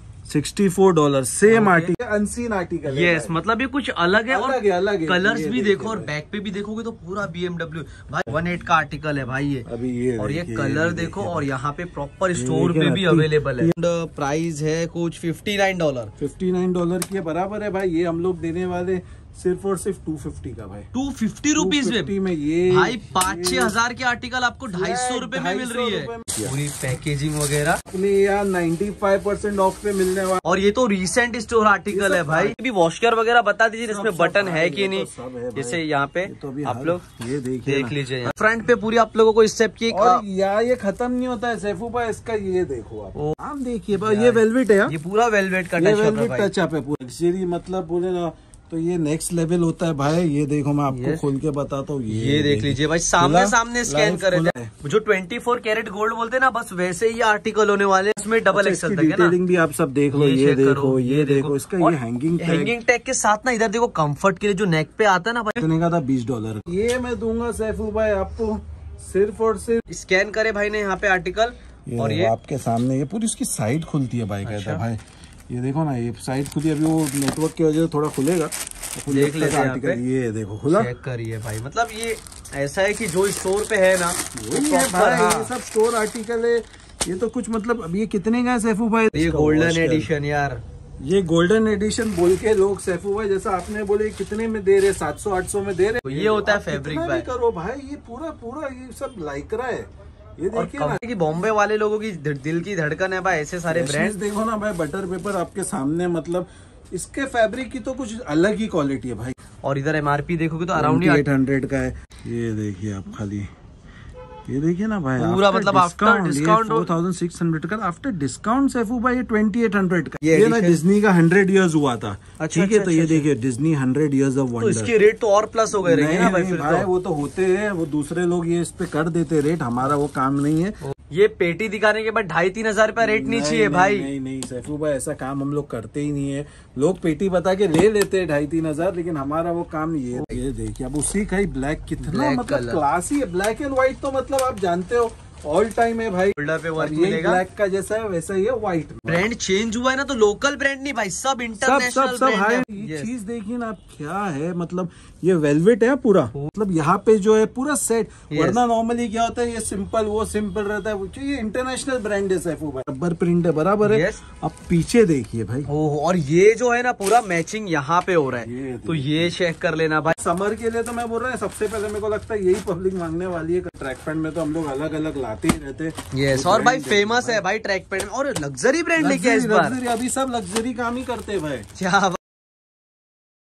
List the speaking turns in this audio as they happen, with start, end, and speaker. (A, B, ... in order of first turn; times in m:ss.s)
0:00.3-0:03.3 A
0:01.5-0:01.9 B
0:02.9-0:09.7 B
0:04.3-0:06.1 A
0:09.7-0:11.5 A
0:10.2-0:16.1 B
0:12.3-0:13.7 A
0:16.2-0:20.9 A
0:20.9-0:22.1 B
0:21.6-0:23.8 A
0:22.7-0:27.8 B
0:24.7-0:26.6 A
0:27.9-0:30.4 A
0:30.4-0:37.0 B
0:31.9-0:32.6 A
0:33.8-0:38.3 A
0:37.6-0:40.2 B
0:39.9-0:45.0 A
0:43.9-0:46.5 B
0:45.8-0:54.7 A
0:50.9-0:51.2 B
0:52.1-0:59.4 B
0:58.5-1:02.8 A
1:00.1-1:05.7 B
1:05.6-1:09.8 A
1:09.9-1:12.3 B
1:11.9-1:20.9 A
1:14.4-1:14.8 B
1:19.1-1:20.0 B
1:20.7-1:25.5 B
1:24.3-1:30.1 A
1:29.1-1:30.6 B
1:31.0-1:41.0 A
1:36.0-1:37.3 B
1:40.5-1:44.2 B
1:43.7-1:49.4 A
1:49.6-1:51.3 B
1:50.8-1:53.5 A
1:54.5-2:04.9 A
1:55.2-1:56.9 B
2:00.2-2:00.8 B
2:02.4-2:03.3 B
2:04.6-2:06.9 B
2:05.8-2:10.8 A
2:10.8-2:14.1 B
2:13.0-2:29.3 A
2:20.2-2:20.4 B
2:22.0-2:22.8 B
2:26.4-2:27.4 B
2:29.1-2:33.1 B
2:31.6-2:45.7 A
2:38.3-2:38.6 B
2:43.8-2:44.2 B
2:45.7-2:50.2 B
2:48.4-2:49.3 A
2:50.1-2:57.4 A
2:56.1-2:59.8 B
2:59.0-3:01.7 A
3:01.8-3:02.2 B